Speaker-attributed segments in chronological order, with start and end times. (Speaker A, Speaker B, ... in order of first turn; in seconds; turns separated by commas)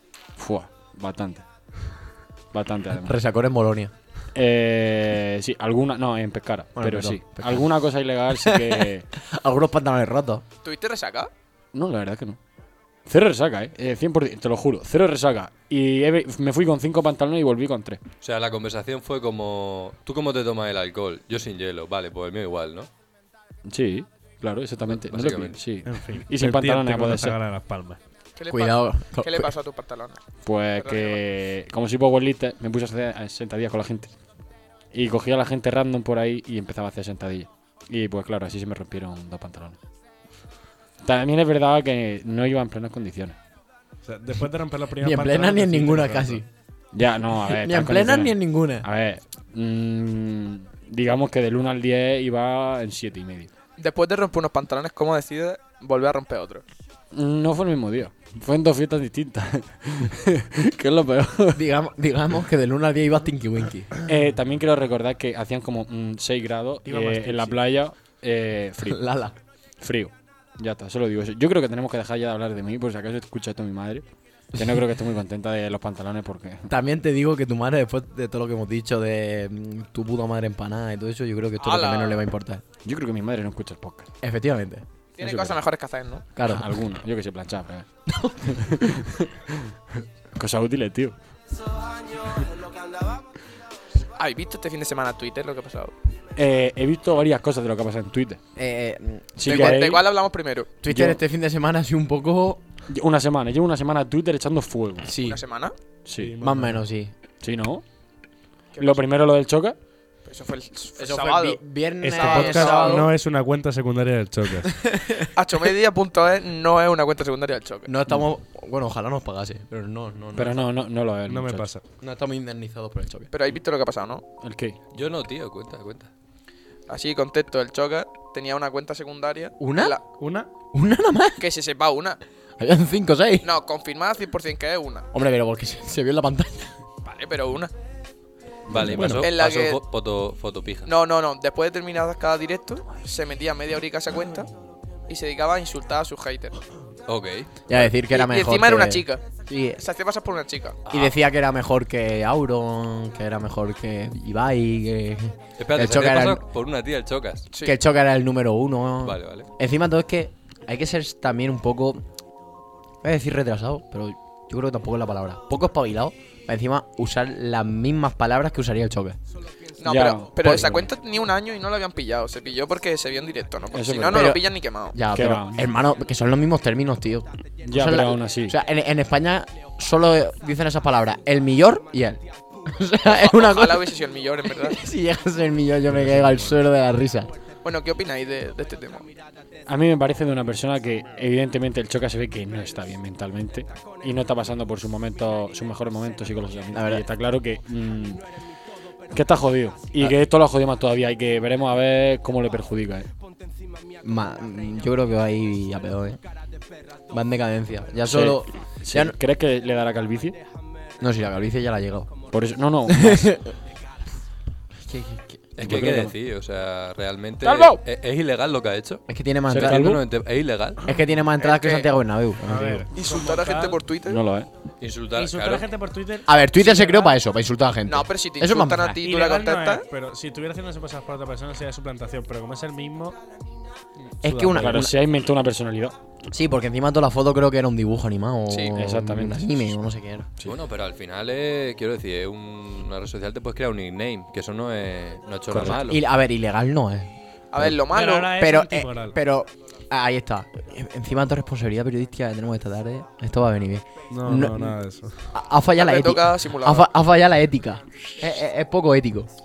Speaker A: 0.4-1.4, Speaker A: 2.5-3.1, Speaker B: 2.9-3.9, Speaker A: 4.3-9.1, Speaker B: 6.8-7.7, Speaker B: 8.4-10.4, Speaker C: 10.6-11.3, Speaker A: 11.7-12.4, Speaker A: 13.1-18.0, Speaker D: 18.2-22.9, Speaker A: 23.7-27.4, Speaker D: 24.9-25.6, Speaker E: 25.8-28.0, Speaker C: 28.4-30.2, Speaker B: 28.5-29.5, Speaker A: 30.4-34.1, Speaker C: 30.8-31.2, Speaker A: 34.9-39.8, Speaker A: 41.0-43.4, Speaker E: 44.0-46.4, Speaker B: 45.0-46.4, Speaker A: 46.9-53.5, Speaker B: 47.4-48.8, Speaker C: 53.8-56.6, Speaker A: 57.1-61.6, Speaker B: 61.5-63.9, Speaker A: 64.0-69.0, Speaker E: 66.8-67.6, Speaker B: 68.8-69.3, Speaker A: 69.8-76.7, Speaker B: 74.5-74.9, Speaker B: 76.7-82.6, Speaker C: 81.6-82.2, Speaker A: 82.8-84.1, Speaker B: 84.2-84.8, Speaker C: 85.2-86.2, Speaker A: 85.2-85.5, Speaker B: 86.3-86.7, Speaker A: 86.4-87.8, Speaker B: 88.1-88.8, Speaker A: 88.5-89.7, Speaker A: 90.3-91.2, Speaker C: 94.2-95.9, Speaker A: 96.3-98.4, Speaker B: 98.5-99.8, Speaker A: 99.4-100.0, Speaker C: 99.5-100.7, Speaker B: 100.8-102.6, Speaker A: 100.9-101.2, Speaker A: 102.9-105.1, Speaker B: 105.0-105.4, Speaker C: 105.2-105.7, Speaker A: 106.0-106.3, Speaker E: 106.2-106.8, Speaker B: 106.4-107.1, Speaker A: 107.4-107.8, Speaker C: 108.7-109.0, Speaker A: 108.8-109.8, Speaker C: 110.2-113.1, Speaker B: 111.0-113.1, Speaker E: 112.0-114.7, Speaker B: 114.7-115.3, Speaker C: 115.3-117.9, Speaker B: 117.8-120.7, Speaker A: 120.3-121.7, Speaker E: 121.2-121.8, Speaker B: 122.0-123.3, Speaker C: 123.3-124.2, Speaker A: 124.4-124.8, Speaker D: 124.9-126.1, Speaker C: 126.9-130.0, Speaker B: 129.6-130.0, Speaker E: 130.2-130.5, Speaker B: 130.7-131.5, Speaker C: 131.4-132.2, Speaker B: 132.6-133.5, Speaker C: 133.4-135.1, Speaker B: 135.1-136.7, Speaker C: 137.0-137.7, Speaker A: 138.7-139.2, Speaker D: 138.7-140.9, Speaker B: 138.8-139.2, Speaker C: 139.2-139.8, Speaker C: 140.8-144.5, Speaker C: 145.1-146.6, Speaker D: 147.1-147.5, Speaker B: 147.7-149.8, Speaker C: 147.7-149.2, Speaker C: 149.8-150.8, Speaker B: 150.9-156.4, Speaker D: 155.6-157.5, Speaker B: 157.6-162.0, Speaker D: 159.0-159.5, Speaker B: 163.0-169.2, Speaker C: 169.8-174.9, Speaker A: 169.8-170.8, Speaker B: 170.4-170.7, Speaker A: 173.7-174.3, Speaker B: 174.1-183.9, Speaker A: 175.1-175.6, Speaker A: 177.6-178.6, Speaker C: 183.1-184.8, Speaker B: 184.5-187.3, Speaker C: 187.6-189.1, Speaker A: 189.7-198.2, Speaker B: 196.7-197.0, Speaker A: 199.1-203.1, Speaker B: 204.0-206.2, Speaker B: 207.1-209.2, Speaker A: 208.1-210.4, Speaker B: 211.0-212.1, Speaker A: 212.3-213.3, Speaker B: 212.9-213.5, Speaker B: 214.8-215.8, Speaker D: 215.6-220.8, Speaker A: 215.6-216.1, Speaker A: 217.4-217.8, Speaker B: 219.1-219.9, Speaker A: 219.5-220.0, Speaker B: 220.8-222.8, Speaker C: 221.4-221.9, Speaker E: 222.4-223.8, Speaker C: 222.9-224.2, Speaker A: 224.1-224.5, Speaker D: 224.8-225.7, Speaker E: 225.1-227.2, Speaker B: 226.2-229.0, Speaker C: 227.8-229.8, Speaker E: 229.0-233.2, Speaker B: 234.2-234.9, Speaker E: 234.2-234.9, Speaker A: 234.5-235.9, Speaker B: 236.3-240.3, Speaker C: 238.5-238.8, Speaker A: 238.7-239.7, Speaker D: 240.4-246.0, Speaker A: 245.5-245.8, Speaker B: 245.6-247.8, Speaker C: 247.5-248.3, Speaker E: 247.9-249.2, Speaker B: 248.3-254.8, Speaker E: 254.1-255.1, Speaker B: 255.3-259.3, Speaker C: 255.8-256.9